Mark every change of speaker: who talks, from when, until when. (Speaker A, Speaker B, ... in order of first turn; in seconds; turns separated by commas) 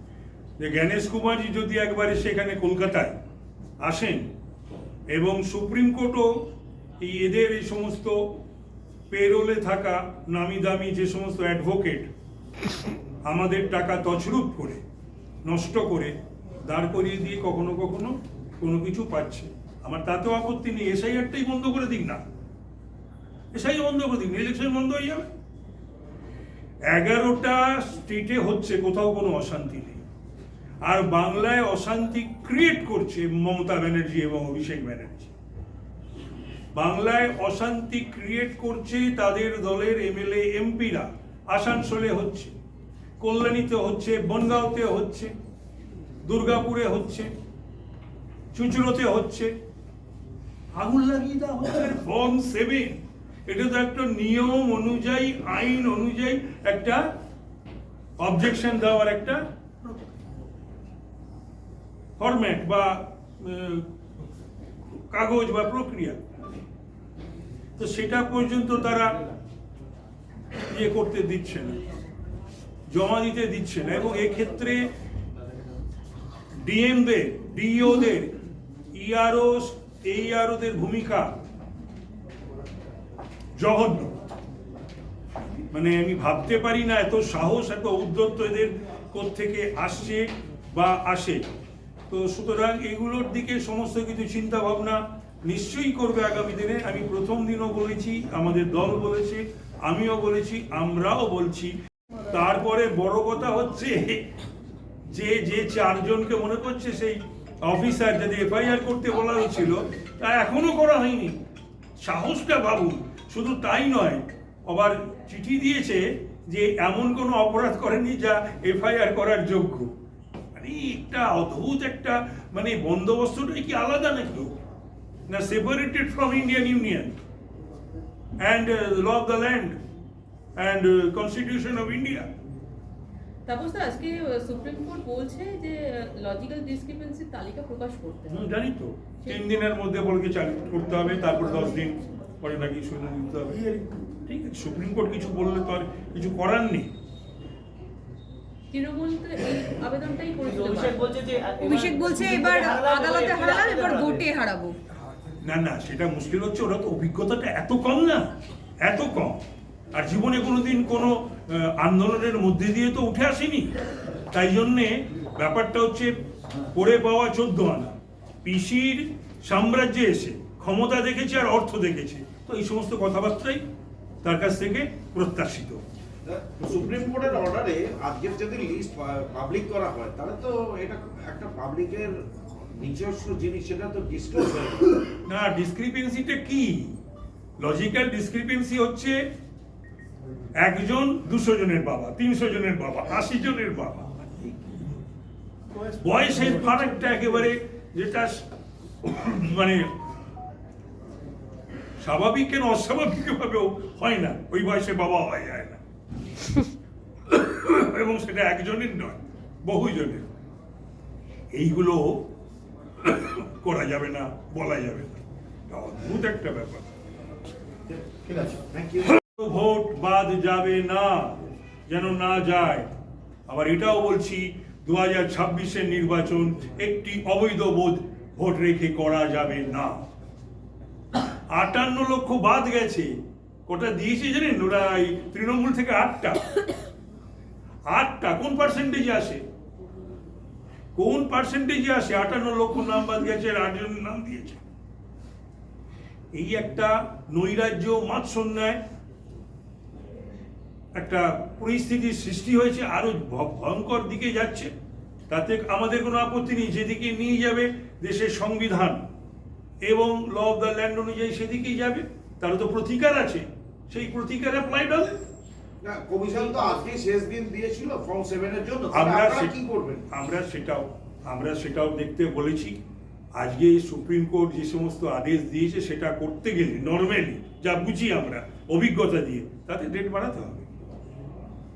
Speaker A: 0.6-3.2, Speaker A: 3.8-4.3, Speaker A: 5.1-6.3, Speaker A: 7.0-8.3, Speaker A: 9.1-12.1, Speaker A: 13.2-14.8, Speaker A: 15.4-22.2, Speaker A: 23.5-25.2, Speaker A: 26.9-30.1, Speaker A: 30.8-35.3, Speaker A: 36.8-42.5, Speaker A: 43.2-45.3, Speaker A: 46.2-47.3, Speaker A: 48.5-49.5, Speaker A: 50.8-57.0, Speaker A: 58.2-60.1, Speaker A: 62.2-63.9, Speaker A: 65.1-66.2, Speaker A: 67.8-69.2, Speaker A: 70.7-71.8, Speaker A: 72.9-74.9, Speaker A: 76.6-78.3, Speaker A: 78.9-81.3, Speaker A: 83.6-84.2, Speaker A: 85.7-91.4, Speaker A: 92.1-101.7, Speaker A: 102.3-104.2, Speaker A: 105.1-111.4, Speaker A: 112.0-119.9, Speaker A: 120.5-124.6, Speaker A: 125.3-127.2, Speaker A: 128.4-129.8, Speaker A: 130.6-132.3, Speaker B: 133.5-138.3, Speaker A: 138.3-143.6, Speaker A: 144.3-146.9, Speaker B: 148.7-150.9, Speaker C: 150.4-154.3, Speaker D: 151.6-154.8, Speaker A: 155.4-158.3, Speaker A: 158.8-159.4, Speaker A: 159.9-163.7, Speaker A: 164.3-166.1, Speaker A: 166.7-173.6, Speaker A: 174.2-175.8, Speaker E: 176.2-185.1, Speaker A: 185.3-187.0, Speaker A: 187.6-189.2, Speaker A: 190.6-194.3, Speaker A: 195.8-198.5, Speaker A: 199.0-199.9, Speaker A: 202.0-205.8, Speaker A: 207.3-210.3, Speaker A: 211.5-212.3, Speaker A: 213.0-216.9, Speaker E: 217.9-219.2, Speaker A: 219.4-222.9, Speaker A: 223.5-230.1, Speaker A: 231.5-233.1, Speaker A: 233.7-236.8, Speaker A: 237.9-239.4, Speaker A: 240.9-244.6, Speaker A: 246.3-248.8, Speaker A: 251.0-254.7, Speaker A: 255.3-259.0, Speaker A: 259.9-265.2, Speaker E: 265.8-270.1, Speaker A: 268.9-269.5, Speaker A: 270.1-272.8, Speaker A: 273.4-280.7